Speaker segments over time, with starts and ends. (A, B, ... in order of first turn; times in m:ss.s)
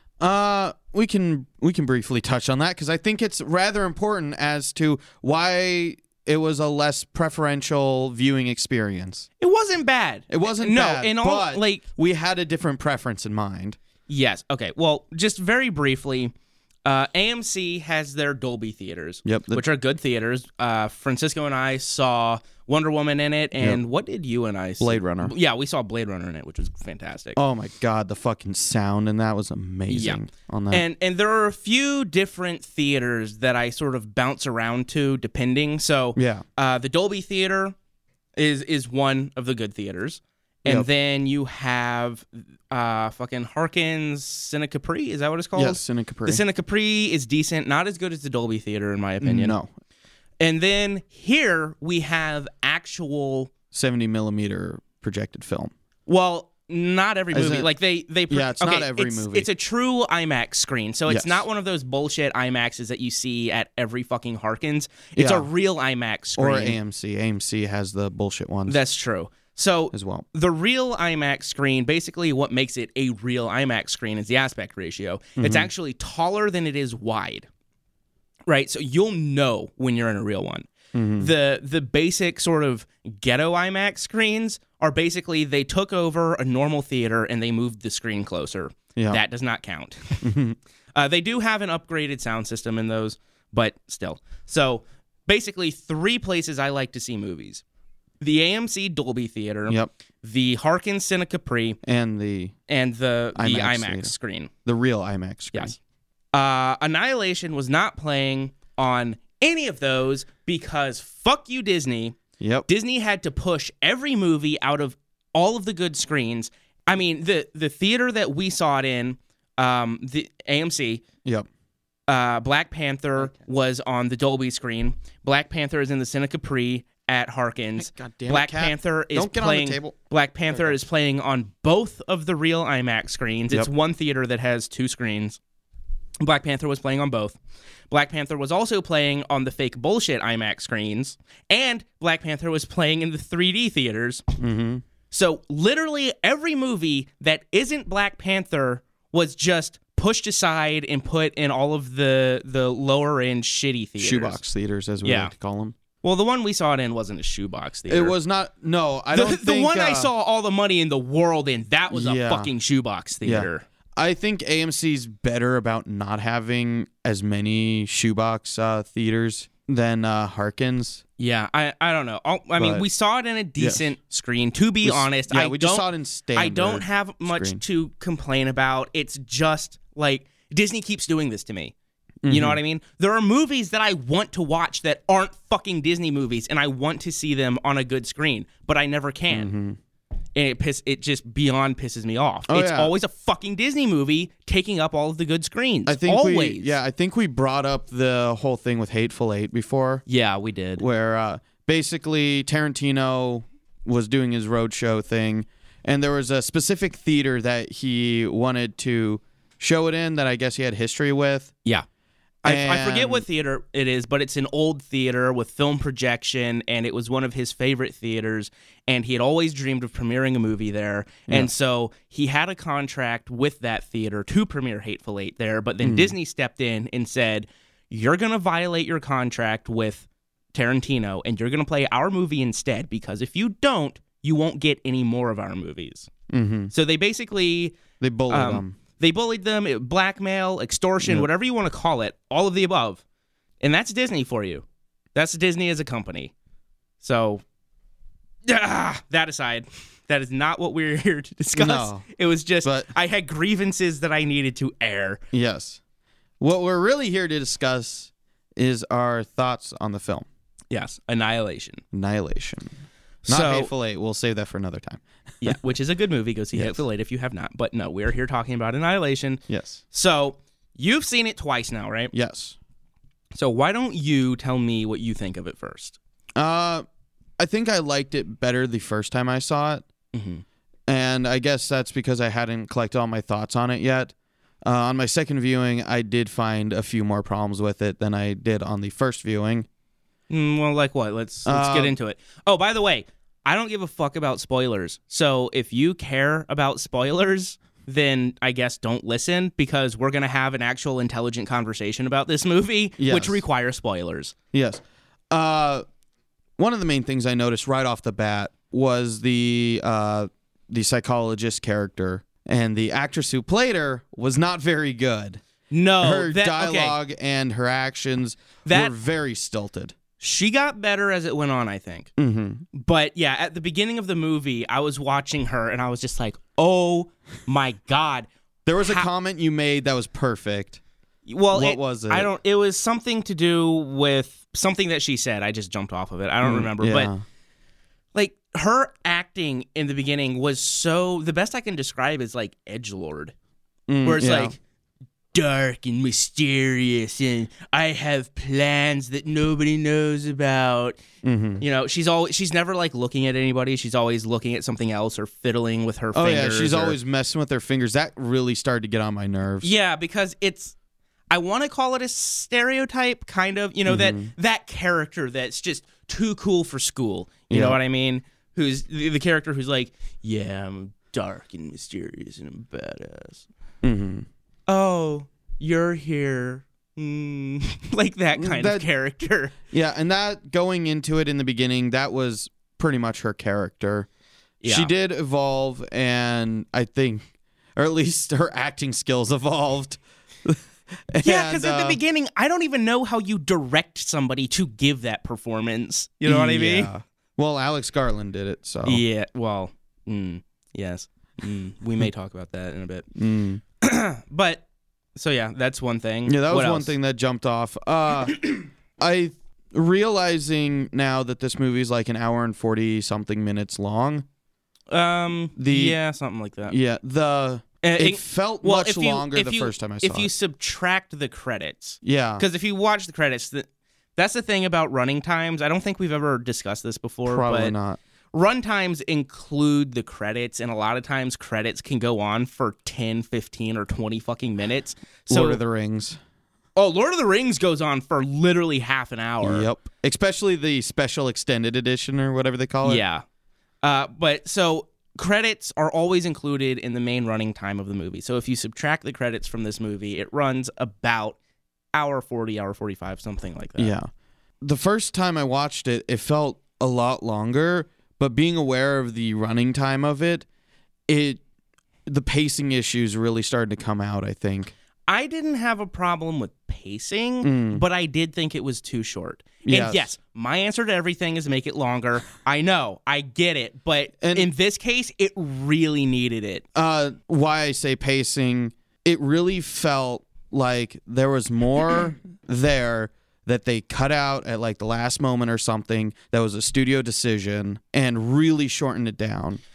0:00.2-0:09.3 A
0:09.4-0:11.8 B
0:10.3-0:13.8 A
0:14.1-0:16.3 B
0:16.8-0:27.4 B
0:19.2-0:19.6 A
0:24.8-0:25.3 A
0:27.4-0:30.8 A
0:29.9-0:37.8 B
0:36.2-0:36.4 A
0:38.4-0:49.6 B
0:45.6-0:46.4 A
0:49.2-0:49.7 A
0:50.4-0:53.5 B
0:53.7-0:55.7 A
0:56.1-1:06.8 B
0:57.3-0:57.7 A
0:58.3-0:59.5 A
1:01.1-1:01.4 A
1:05.2-1:05.5 A
1:06.4-1:08.8 A
1:08.7-1:17.5 B
1:09.9-1:10.2 A
1:15.4-1:15.7 A
1:18.5-1:20.7 B
1:20.9-1:21.3 A
1:21.2-1:30.3 B
1:29.0-1:29.2 A
1:30.2-1:30.6 A
1:31.0-1:37.6 B
1:38.2-1:41.8 B
1:41.8-1:42.6 A
1:42.7-1:44.5 B
1:43.4-1:44.1 A
1:44.6-1:45.8 A
1:46.3-2:01.0 B
1:52.4-1:52.7 A
2:02.1-2:15.4 B
2:07.8-2:10.0 A
2:10.5-2:10.8 A
2:16.2-2:17.4 B
2:17.9-2:24.2 B
2:24.4-2:24.8 A
2:25.1-2:34.4 B
2:34.0-2:35.8 A
2:35.0-2:35.3 B
2:36.0-2:38.2 B
2:37.9-2:40.1 A
2:39.1-2:43.6 B
2:41.9-2:42.5 A
2:43.2-2:51.0 A
2:51.2-3:01.7 B
2:52.6-2:52.8 A
2:53.6-2:53.9 A
2:54.8-2:57.6 A
3:02.2-3:02.6 A
3:02.3-3:09.5 B
3:09.3-3:09.8 A
3:10.4-3:16.8 B
3:12.5-3:12.9 A
3:15.9-3:20.0 A
3:20.1-3:20.8 B
3:20.8-3:31.5 A
3:32.4-3:56.1 B
3:32.4-3:33.2 A
3:45.8-3:46.1 A
3:56.3-3:56.7 A
3:56.7-3:57.8 B
3:58.0-3:58.8 A
3:58.3-4:03.0 B
4:01.0-4:01.3 A
4:03.6-4:06.3 B
4:07.0-4:07.4 B
4:08.5-4:15.2 B
4:11.6-4:12.0 A
4:12.6-4:12.9 A
4:15.3-4:15.8 A
4:16.4-4:20.3 A
4:20.7-4:21.8 B
4:21.9-4:25.0 A
4:23.2-4:23.7 B
4:25.4-4:32.1 B
4:29.5-4:29.8 A
4:32.1-4:32.6 A
4:33.4-4:36.0 B
4:36.4-4:36.8 A
4:37.4-4:39.8 A
4:40.1-4:40.4 B
4:40.9-4:44.1 A
4:44.6-4:49.7 A
4:50.3-5:04.4 B
4:51.5-4:52.0 A
5:03.0-5:03.4 A
5:04.5-5:05.8 A
5:06.6-5:15.4 A
5:15.7-5:17.0 B
5:16.0-5:20.0 A
5:18.6-5:18.9 B
5:20.2-5:22.1 B
5:22.2-5:22.7 A
5:22.7-5:28.3 B
5:28.7-5:30.8 A
5:28.8-5:29.1 B
5:31.3-5:37.1 B
5:31.5-5:32.3 A
5:36.4-5:37.2 A
5:38.2-5:43.3 B
5:43.9-5:44.6 A
5:44.0-5:44.6 B
5:45.3-5:51.0 B
5:51.2-5:51.6 A
5:51.6-5:57.0 B
5:56.1-5:59.7 A
5:59.6-6:00.8 B
6:01.3-6:13.5 B
6:03.9-6:04.3 A
6:07.5-6:07.8 A
6:13.8-6:14.3 A
6:14.7-6:19.6 B
6:18.4-6:18.9 A
6:19.7-6:24.1 A
6:24.6-6:24.9 B
6:24.6-6:30.6 A
6:31.1-6:32.0 A
6:31.2-6:36.9 B
6:36.2-6:39.0 A
6:38.8-6:43.1 B
6:43.2-6:43.6 A
6:43.8-6:44.6 B
6:45.2-6:46.9 B
6:46.2-6:48.5 A
6:49.0-6:54.3 A
6:54.9-6:56.8 B
6:55.6-6:56.0 A
6:56.7-7:00.3 A
6:57.8-7:07.7 B
7:02.0-7:02.4 A
7:07.3-7:08.0 A
7:08.3-7:15.6 B
7:15.3-7:16.2 A
7:16.8-7:19.7 B
7:19.4-7:23.0 A
7:22.8-7:23.2 B
7:23.8-7:31.4 B
7:31.9-7:34.0 B
7:33.8-7:34.1 A
7:34.6-7:40.5 A
7:41.1-7:41.4 A
7:42.1-7:44.7 A
7:45.1-7:56.6 B
7:47.4-7:47.8 A
7:49.6-7:50.1 A
7:54.2-7:54.5 A
7:56.8-8:09.6 A